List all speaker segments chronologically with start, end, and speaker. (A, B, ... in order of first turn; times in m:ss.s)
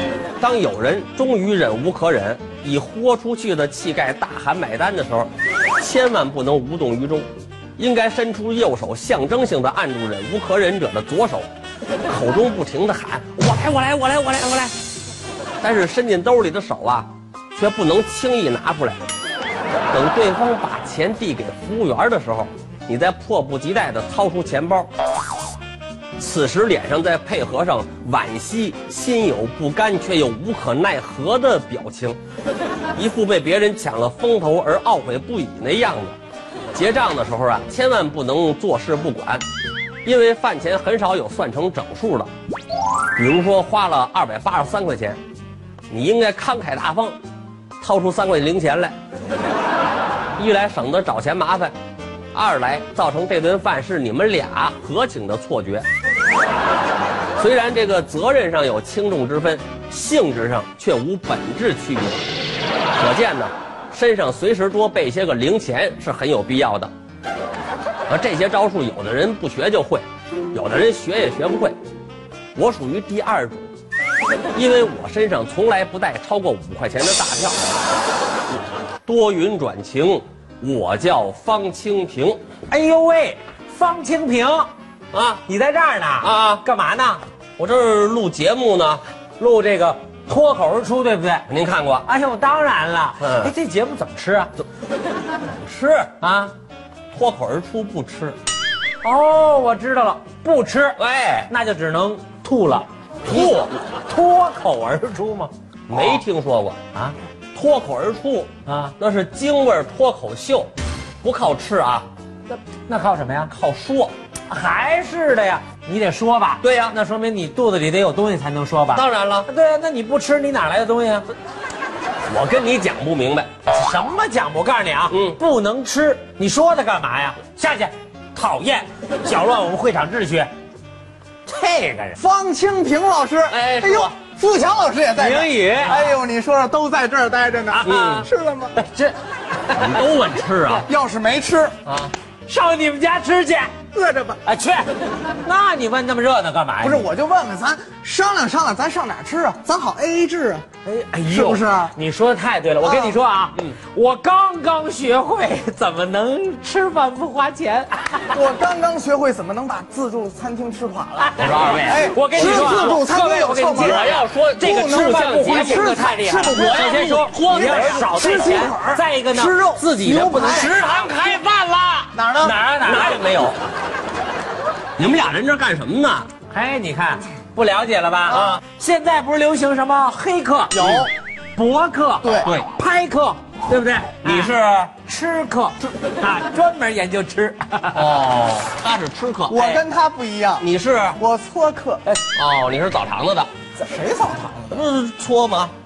0:00.4-0:11.5 A
0:12.1-0:14.7 A
0:15.6-0:19.0 A
0:19.9-0:24.9 A
0:26.2-0:32.2 A
0:33.0-0:36.2 A
0:36.7-0:39.4 A
0:40.0-0:42.3 A
0:43.2-0:45.2 A
0:45.9-0:47.2 A
0:47.8-0:48.9 A
0:50.4-0:51.7 A
0:52.3-0:55.8 A
0:57.4-1:02.2 A
1:03.0-1:06.9 A
1:08.1-1:11.8 A
1:12.5-1:13.7 A
1:14.5-1:17.6 A
1:19.0-1:22.4 A
1:22.7-1:24.7 B
1:25.1-1:25.4 A
1:25.5-1:27.2 B
1:26.2-1:26.6 A
1:27.6-1:29.0 A
1:29.4-1:31.4 B
1:31.5-1:32.0 A
1:32.0-1:34.5 B
1:33.2-1:33.5 A
1:35.4-1:36.2 A
1:36.2-1:36.5 B
1:37.1-1:38.4 A
1:39.0-1:46.2 B
1:41.0-1:41.5 A
1:43.2-1:43.7 A
1:45.9-1:46.8 A
1:47.5-1:50.7 A
1:48.6-1:48.9 B
1:51.2-1:52.1 A
1:52.5-1:53.5 B
1:53.5-1:54.1 A
1:54.5-2:01.3 B
1:56.6-1:57.0 A
1:58.9-1:59.5 A
2:02.2-2:03.5 A
2:03.7-2:10.5 B
2:05.1-2:05.4 A
2:11.4-2:12.2 B
2:12.2-2:18.7 C
2:13.5-2:14.1 A
2:15.2-2:16.0 B
2:15.8-2:16.1 A
2:17.7-2:20.0 B
2:17.8-2:18.3 A
2:19.7-2:20.9 A
2:20.9-2:21.7 C
2:21.8-2:22.1 A
2:22.5-2:23.8 B
2:23.9-2:24.4 C
2:24.4-2:24.9 B
2:25.4-2:27.0 B
2:26.8-2:30.6 C
2:30.8-2:38.4 B
2:31.3-2:31.9 C
2:32.8-2:33.2 C
2:38.3-2:50.8 C
2:41.2-2:53.2 B
2:41.4-2:43.0 A
2:43.7-2:48.5 A
2:52.1-2:52.6 C
2:52.8-2:53.6 A
2:55.0-2:56.3 A
2:56.5-3:01.0 B
2:58.3-2:58.6 A
2:58.3-2:58.6 C
3:00.7-3:01.1 C
3:00.8-3:01.1 A
3:01.6-3:04.5 B
3:02.2-3:02.5 C
3:02.4-3:02.7 A
3:04.2-3:04.9 A
3:05.0-3:08.1 B
3:07.9-3:09.8 A
3:09.5-3:12.0 C
3:10.6-3:11.2 A
3:12.3-3:13.5 A
3:13.8-3:14.8 C
3:14.7-3:15.7 A